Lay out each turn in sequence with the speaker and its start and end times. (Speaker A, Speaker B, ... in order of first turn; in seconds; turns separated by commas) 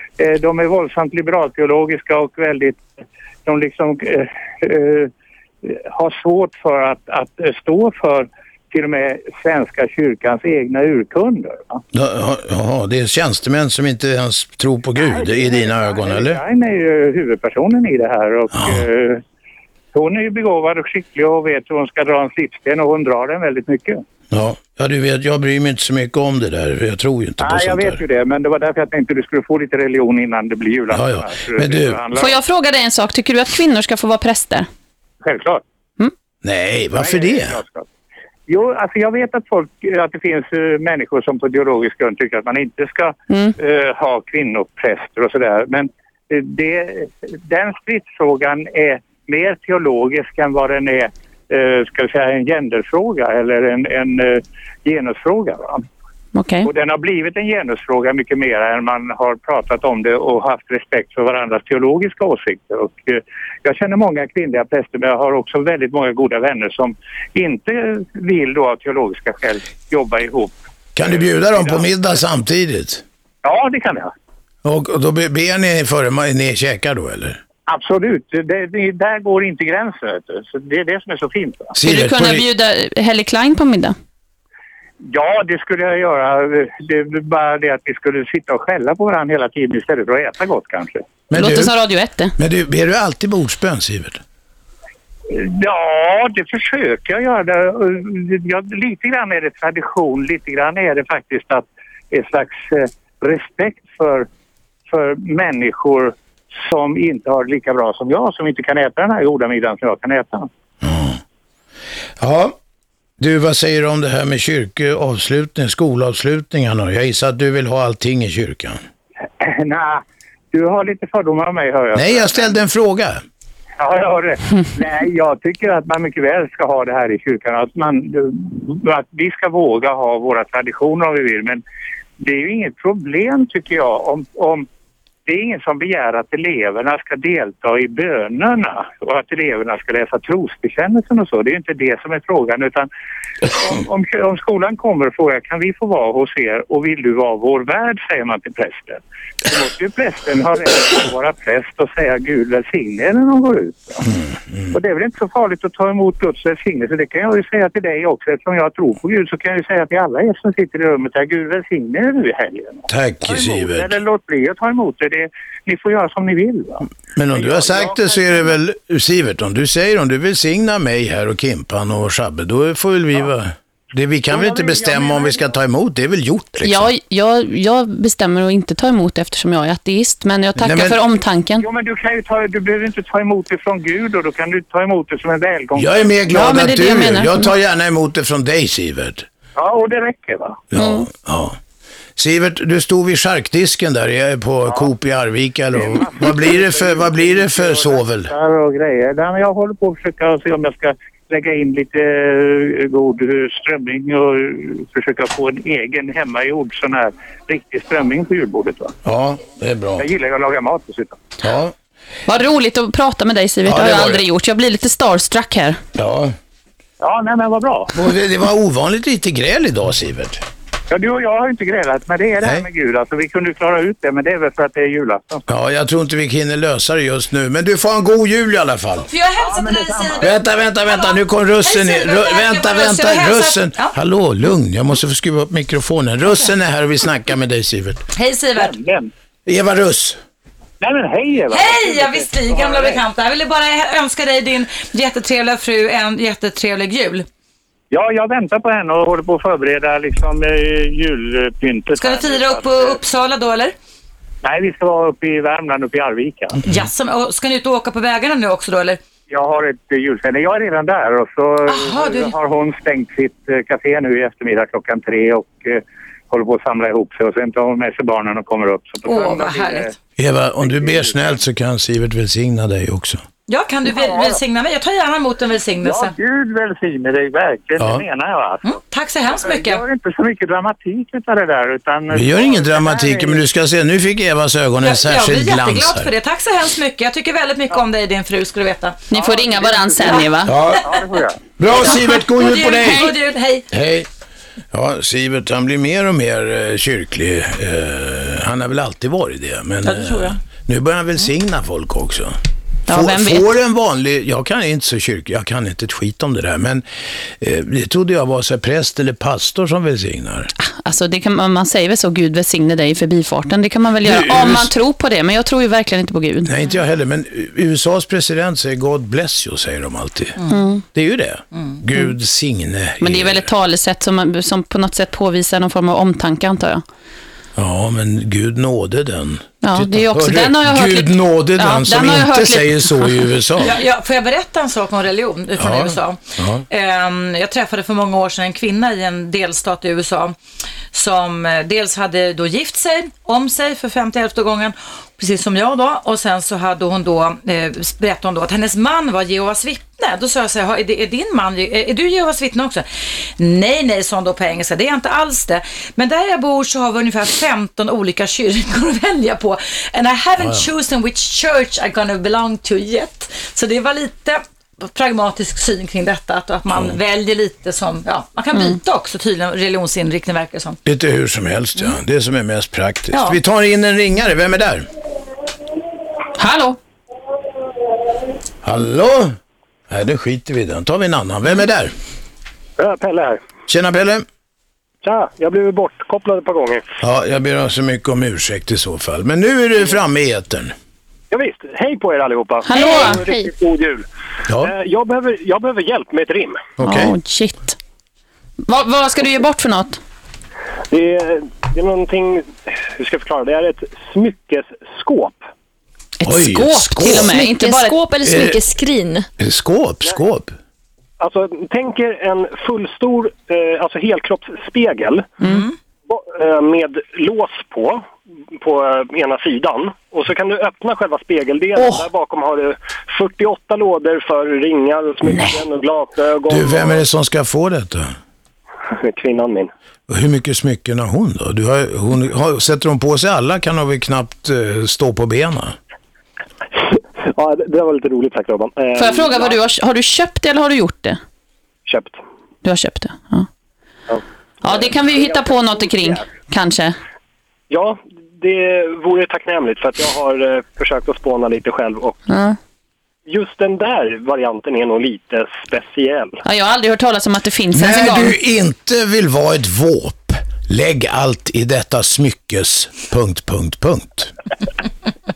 Speaker A: 0.2-2.8, Speaker A: 3.5-5.1, Speaker A: 5.6-11.8, Speaker B: 11.9-16.4, Speaker A: 14.9-19.2, Speaker B: 18.5-18.9, Speaker A: 19.9-24.0, Speaker B: 24.3-28.0, Speaker A: 27.4-32.4, Speaker B: 30.9-32.0, Speaker C: 32.1-34.7, Speaker A: 35.2-35.6, Speaker B: 36.4-37.6, Speaker A: 36.9-37.9, Speaker A: 38.5-55.8, Speaker C: 56.4-56.7, Speaker A: 56.6-71.9, Speaker B: 71.0-73.0, Speaker A: 73.4-74.1, Speaker B: 74.6-77.4, Speaker A: 77.7-81.7, Speaker B: 81.7-82.4, Speaker C: 81.8-83.9, Speaker A: 85.0-91.1, Speaker B: 91.3-91.7, Speaker C: 91.3-92.3, Speaker B: 92.4-94.2, Speaker A: 95.3-104.3, Speaker A: 104.9-110.5, Speaker B: 110.8-111.2, Speaker B: 112.2-112.5, Speaker B: 113.2-118.8, Speaker A: 119.4-122.6, Speaker B: 121.9-123.2, Speaker A: 123.8-131.6, Speaker A: 132.2-134.7, Speaker A: 135.3-142.9, Speaker A: 143.4-154.1, Speaker A: 154.7-168.5, Speaker B: 162.9-164.0, Speaker B: 167.1-176.9, Speaker A: 174.3-175.6, Speaker C: 176.6-181.6, Speaker B: 180.6-181.0, Speaker A: 181.6-186.0, Speaker B: 185.8-189.2, Speaker C: 186.3-187.5, Speaker A: 189.6-190.6, Speaker B: 190.7-191.6, Speaker C: 190.8-191.1, Speaker B: 192.2-198.3, Speaker A: 195.7-208.9, Speaker B: 209.0-210.1, Speaker A: 210.0-211.2, Speaker B: 211.4-211.7, Speaker C: 212.3-215.8, Speaker B: 213.7-214.2, Speaker B: 215.9-216.3, Speaker A: 217.0-217.9, Speaker B: 217.9-220.4, Speaker A: 220.9-225.4, Speaker B: 222.4-222.7, Speaker B: 225.5-229.1, Speaker D: 229.1-230.3, Speaker A: 229.4-230.3, Speaker B: 230.2-238.0, Speaker D: 230.8-233.9, Speaker D: 238.2-238.8, Speaker A: 238.6-239.1, Speaker B: 239.4-240.2, Speaker A: 240.8-243.0, Speaker D: 241.5-247.2, Speaker A: 247.9-253.0, Speaker D: 251.9-253.7, Speaker A: 254.4-256.6, Speaker D: 256.6-259.0, Speaker A: 259.3-269.9, Speaker D: 261.7-262.4, Speaker D: 269.0-269.9, Speaker B: 270.2-273.2, Speaker A: 270.6-271.4, Speaker D: 273.5-276.1, Speaker A: 273.9-274.4, Speaker A: 275.8-283.4, Speaker B: 277.8-278.0, Speaker D: 278.6-279.8, Speaker B: 282.1-286.1, Speaker D: 284.8-289.2, Speaker C: 289.1-290.5, Speaker A: 289.1-290.2, Speaker B: 290.4-290.9, Speaker A: 290.9-291.4, Speaker B: 291.6-293.1, Speaker D: 291.7-293.6, Speaker C: 292.8-293.1, Speaker B: 293.7-294.1, Speaker B: 294.7-302.4, Speaker D: 299.8-300.4, Speaker C: 302.9-303.4, Speaker B: 302.9-306.8, Speaker B: 307.4-310.5, Speaker C: 310.6-316.5, Speaker B: 314.0-314.7, Speaker B: 316.4-323.5, Speaker C: 320.5-320.8, Speaker C: 323.0-326.8, Speaker B: 327.6-333.8, Speaker C: 329.6-333.3, Speaker D: 333.6-340.4, Speaker B: 335.6-336.6, Speaker D: 340.9-370.8, Speaker B: 360.4-360.7, Speaker B: 366.7-366.9, Speaker B: 370.9-374.9, Speaker C: 376.4-376.8, Speaker B: 378.6-379.4, Speaker B: 379.9-381.9, Speaker E: 382.8-383.4, Speaker B: 383.7-384.2, Speaker E: 385.0-386.9, Speaker B: 387.0-390.7, Speaker E: 391.3-394.0, Speaker C: 392.6-393.2, Speaker E: 394.6-396.6, Speaker B: 396.8-397.1, Speaker C: 396.8-397.8, Speaker C: 398.7-400.0, Speaker E: 400.9-405.4, Speaker C: 406.2-408.0, Speaker B: 406.2-407.4, Speaker F: 407.3-409.3, Speaker B: 408.2-408.6, Speaker B: 409.4-410.5, Speaker E: 411.2-415.3, Speaker E: 416.1-418.1, Speaker E: 418.6-427.0, Speaker B: 426.5-428.1, Speaker E: 428.9-429.7, Speaker B: 430.1-435.8, Speaker E: 436.9-439.6, Speaker C: 439.0-441.2, Speaker E: 441.9-442.2, Speaker C: 442.6-443.5, Speaker E: 444.1-445.2, Speaker C: 444.6-446.9, Speaker E: 447.7-452.2, Speaker C: 452.3-452.6, Speaker E: 453.2-456.4, Speaker C: 456.4-458.4, Speaker B: 457.7-464.3